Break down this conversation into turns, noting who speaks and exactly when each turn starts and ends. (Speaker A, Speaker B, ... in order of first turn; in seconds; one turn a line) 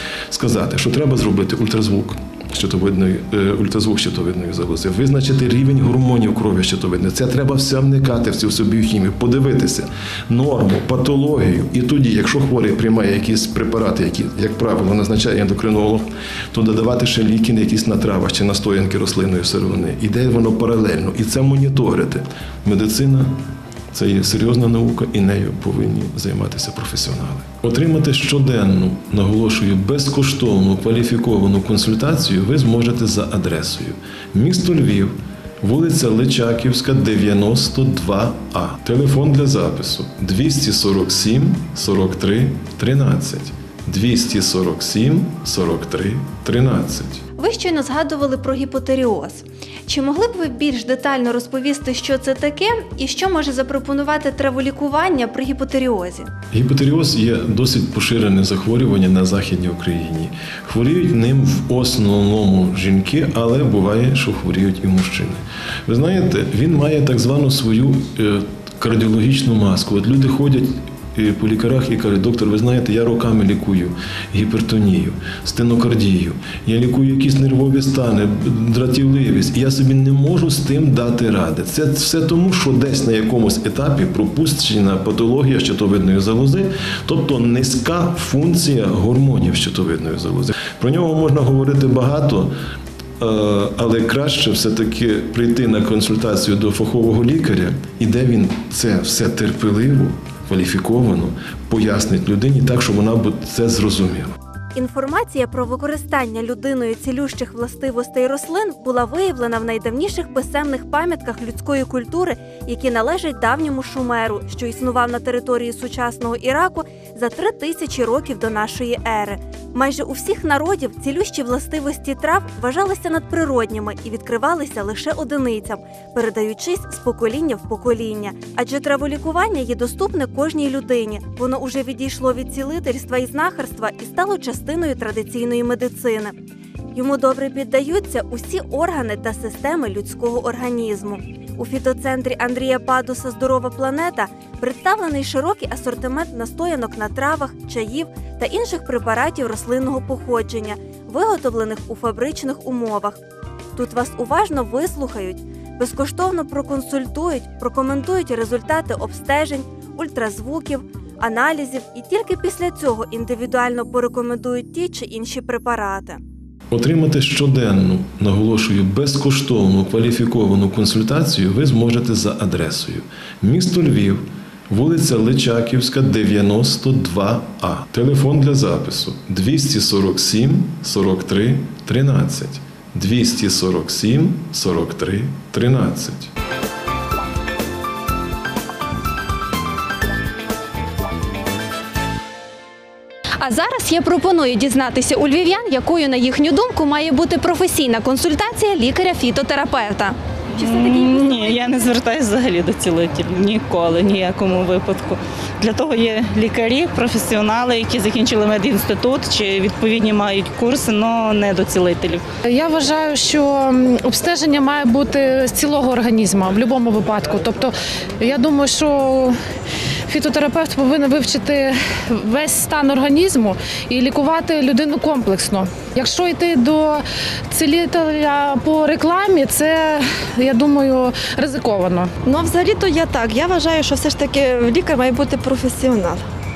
Speaker A: 0.3-23.4
Speaker A: 23.9-47.2
Speaker B: 47.4-56.3
Speaker A: 56.5-92.5
Speaker A: 93.2-104.3
Speaker B: 104.7-136.3
Speaker B: 136.9-153.2
Speaker B: 153.8-166.2
Speaker A: 166.7-186.3
Speaker B: 193.4-201.6
Speaker C: 200.6-212.2
Speaker D: 212.4-219.3
Speaker D: 220.1-232.1
Speaker E: 232.2-236.2